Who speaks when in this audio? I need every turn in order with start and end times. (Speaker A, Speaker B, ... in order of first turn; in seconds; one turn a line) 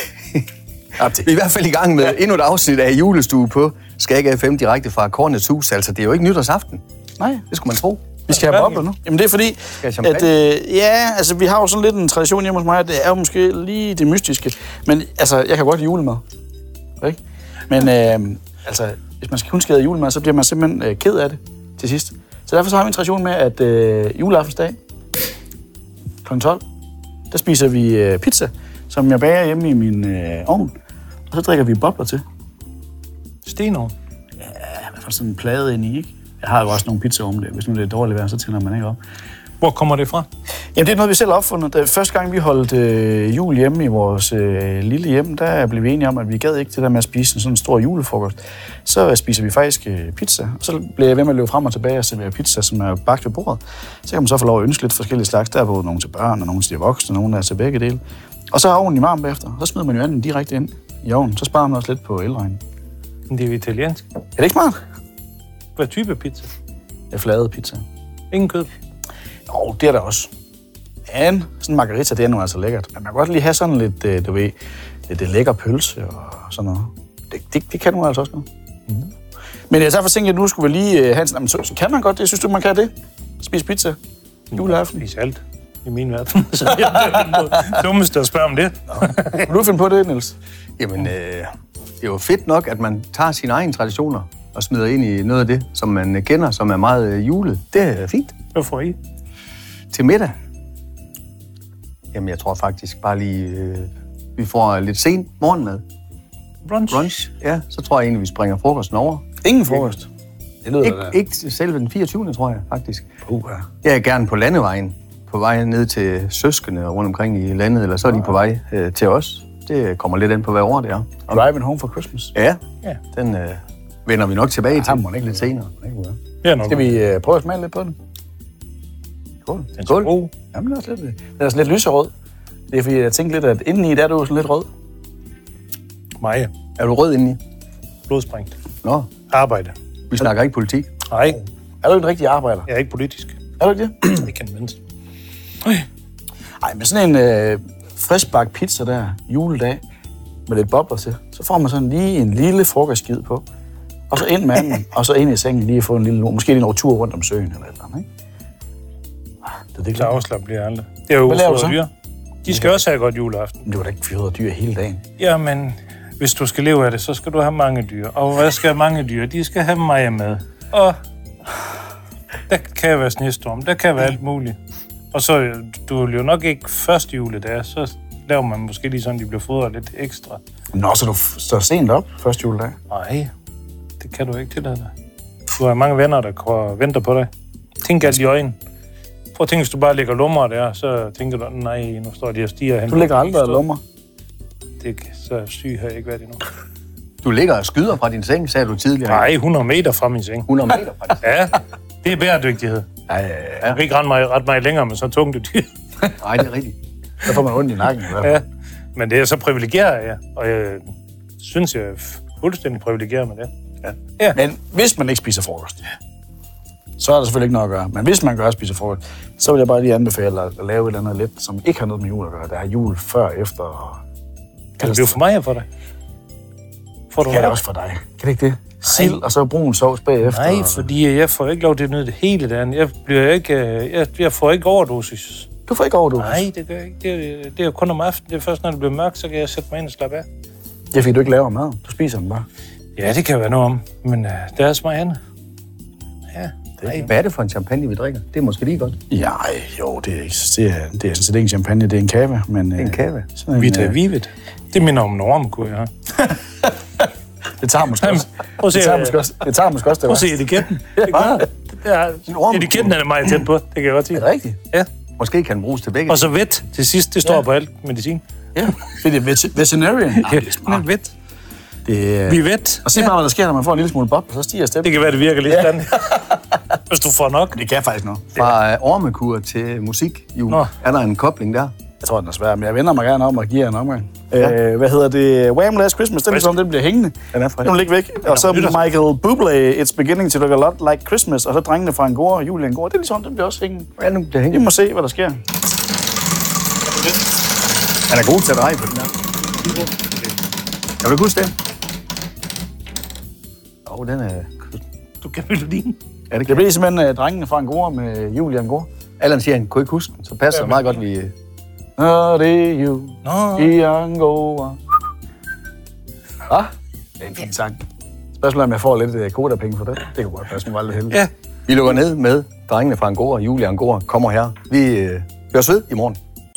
Speaker A: 1.0-1.3
Speaker B: 1.2-6.8
Speaker A: 7.2-7.5
Speaker B: 7.5-8.1
Speaker A: 8.3-16.2
Speaker C: 8.3-8.9
Speaker B: 9.8-10.3
Speaker A: 17.7-24.8
Speaker A: 26.2-26.6
Speaker A: 27.3-30.7
Speaker A: 31.3-32.2
Speaker C: 33.5-33.9
Speaker A: 34.4-39.0
Speaker C: 39.6-40.3
Speaker A: 40.8-62.6
Speaker C: 63.3-64.0
Speaker A: 64.4-64.8
Speaker C: 65.8-66.5
Speaker A: 67.1-67.8
Speaker C: 68.3-68.7
Speaker A: 69.5-70.3
Speaker A: 71.1-74.5
Speaker A: 75.1-78.5
Speaker A: 79.7-84.0
Speaker C: 84.5-89.5
Speaker A: 84.5-85.0
Speaker A: 89.4-90.3
Speaker B: 90.8-91.5
Speaker B: 92.0-98.3
Speaker C: 98.5-99.0
Speaker B: 99.9-100.3
Speaker B: 102.1-105.8
Speaker C: 106.6-107.1
Speaker B: 106.9-109.2
Speaker A: 109.4-110.1
Speaker A: 110.6-111.2
Speaker B: 110.8-113.1
Speaker A: 113.3-113.7
Speaker B: 113.8-121.4
Speaker A: 121.3-122.3
Speaker B: 122.3-122.6
Speaker B: 123.1-125.7
Speaker A: 124.7-128.0
Speaker C: 126.4-126.9
Speaker C: 129.8-130.3
Speaker A: 130.5-132.1
Speaker A: 132.7-134.7
Speaker C: 136.2-136.5
Speaker B: 136.8-137.4
Speaker C: 138.1-138.5
Speaker B: 138.8-139.1
Speaker C: 139.3-139.8
Speaker B: 140.1-140.9
Speaker C: 141.1-141.4
Speaker A: 141.8-142.7
Speaker C: 142.7-143.4
Speaker A: 143.6-144.2
Speaker C: 144.1-144.8
Speaker A: 146.6-149.8
Speaker A: 150.5-153.4
Speaker A: 154.1-158.1
Speaker A: 159.7-160.2
Speaker C: 159.9-161.9
Speaker A: 161.3-161.8
Speaker C: 162.4-163.6
Speaker A: 163.7-165.0
Speaker C: 165.2-171.0
Speaker C: 172.5-174.6
Speaker C: 175.1-180.4
Speaker A: 180.7-182.8
Speaker C: 182.9-183.3
Speaker C: 184.0-184.9
Speaker C: 185.6-187.3
Speaker C: 187.8-188.6
Speaker C: 189.3-193.7
Speaker A: 192.9-193.8
Speaker C: 194.8-196.4
Speaker B: 197.2-199.3
Speaker C: 199.1-200.5
Speaker B: 200.5-201.2
Speaker C: 201.2-202.9
Speaker A: 203.1-203.7
Speaker C: 203.6-205.7
Speaker B: 206.2-206.8
Speaker A: 207.2-208.4
Speaker C: 208.2-208.4
Speaker C: 208.9-210.8
Speaker C: 211.4-213.5
Speaker A: 214.3-215.8
Speaker A: 217.0-224.0
Speaker C: 224.8-225.7
Speaker A: 224.8-225.2
Speaker C: 227.1-227.6
Speaker A: 227.2-230.9
Speaker C: 228.8-229.2
Speaker C: 230.2-235.5
Speaker A: 235.7-236.4
Speaker C: 236.2-240.3
Speaker A: 240.9-242.5
Speaker C: 243.0-245.2
Speaker C: 246.3-247.1
Speaker B: 246.9-249.0
Speaker A: 249.1-254.0
Speaker B: 252.8-253.3
Speaker C: 253.6-255.9
Speaker A: 257.6-261.5
Speaker C: 258.0-259.2
Speaker C: 260.0-264.9
Speaker B: 261.1-261.4
Speaker B: 262.3-262.9
Speaker A: 264.1-264.6
Speaker B: 265.2-266.3
Speaker C: 266.1-268.2
Speaker A: 268.6-270.9
Speaker C: 270.1-271.1
Speaker A: 271.9-276.2
Speaker C: 272.3-273.1
Speaker C: 274.8-277.6
Speaker A: 277.5-278.3
Speaker B: 278.4-281.7
Speaker A: 282.0-293.9
Speaker B: 287.3-287.8
Speaker C: 288.2-288.9
Speaker B: 294.0-294.7
Speaker A: 294.5-295.4
Speaker B: 298.1-299.1
Speaker C: 299.6-300.2
Speaker B: 301.0-301.5
Speaker B: 303.9-304.8
Speaker C: 305.2-306.0
Speaker B: 306.3-306.6
Speaker A: 306.5-308.9
Speaker B: 309.2-311.3
Speaker C: 310.5-310.9
Speaker A: 312.0-314.8
Speaker C: 313.2-313.8
Speaker A: 316.5-317.8
Speaker A: 318.4-321.2
Speaker B: 321.7-326.2